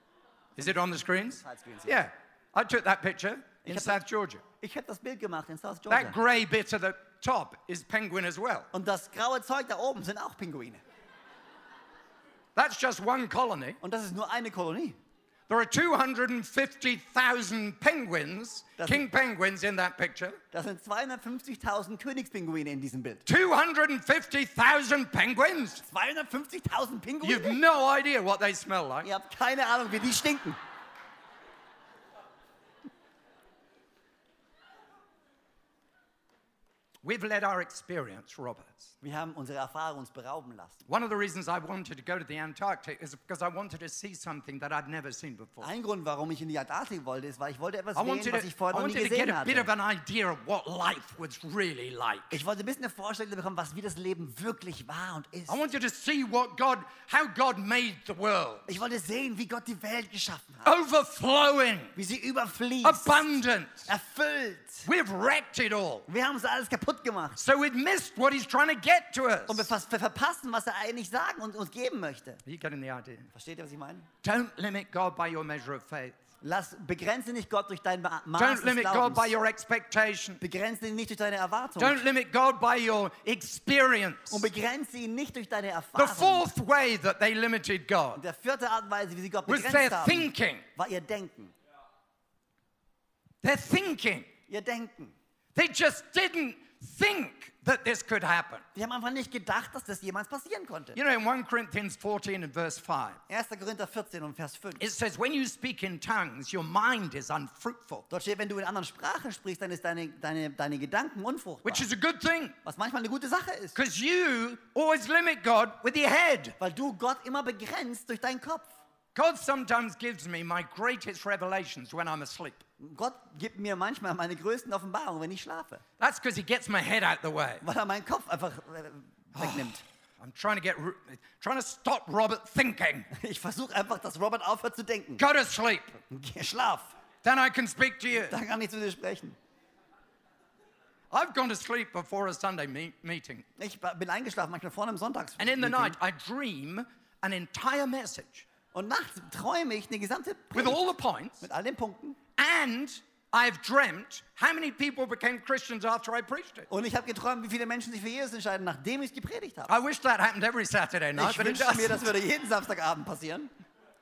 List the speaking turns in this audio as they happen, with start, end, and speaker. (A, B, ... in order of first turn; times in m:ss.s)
0:00.6-0:04.4 A
0:00.6-0:02.0 B
0:03.6-0:04.0 B
0:04.6-0:06.2 B
0:05.9-0:08.7 A
0:08.7-0:10.8 B
0:12.6-0:13.8 A
0:13.8-0:15.0 B
0:15.5-0:20.4 A
0:18.8-0:19.0 B
0:20.5-0:23.2 B
0:23.3-0:25.8 A
0:25.8-0:27.6 B
0:27.2-0:29.1 A
0:29.0-0:30.6 B
0:37.0-0:38.9 A
0:39.0-0:40.9 B
0:40.9-0:45.7 A
0:45.6-0:49.7 B
0:48.0-0:52.4 A
0:52.3-0:55.6 B
0:55.5-0:58.8 A
0:58.7-1:00.7 B
1:00.6-1:01.9 A
1:02.0-1:03.2 B
1:02.8-1:03.9 A
1:03.9-1:04.9 B
1:04.9-1:06.1 A
1:06.1-1:07.4 B
1:07.4-1:09.7 A
1:09.5-1:12.4 B
1:12.4-1:13.3 A
1:13.3-1:14.1 B
1:14.2-1:16.2 A
1:16.4-1:19.3 B
1:18.4-1:20.4 A
1:20.4-1:22.0 B
1:21.8-1:24.5 A
1:24.3-1:26.5 B
1:26.0-1:28.2 A
1:28.2-1:31.5 B
1:29.5-1:30.6 A
1:33.4-1:34.3 A
1:34.5-1:35.2 B
1:35.6-1:38.6 A
1:38.8-1:41.0 B
1:41.0-1:43.2 A
1:43.3-1:44.8 B
1:44.8-1:48.1 A
1:48.1-1:51.9 B
1:51.6-1:52.6 A
1:52.6-1:53.8 B
1:53.8-1:56.6 A
1:56.6-1:58.7 B
1:59.2-2:02.6 A
2:02.8-2:05.8 B
2:06.0-2:07.6 A
2:07.6-2:09.8 B
2:09.4-2:13.1 A
2:13.1-2:15.2 B
2:15.2-2:16.0 A
2:16.0-2:16.9 B
2:17.2-2:18.4 A
2:18.1-2:19.4 B
2:21.1-2:23.5 A
2:23.6-2:26.0 B
2:25.4-2:28.5 A
2:28.7-2:30.8 B
2:30.5-2:31.5 A
2:31.4-2:32.2 B
2:32.4-2:36.7 A
2:36.7-2:39.7 B
2:39.7-2:42.1 A
2:41.2-2:43.5 B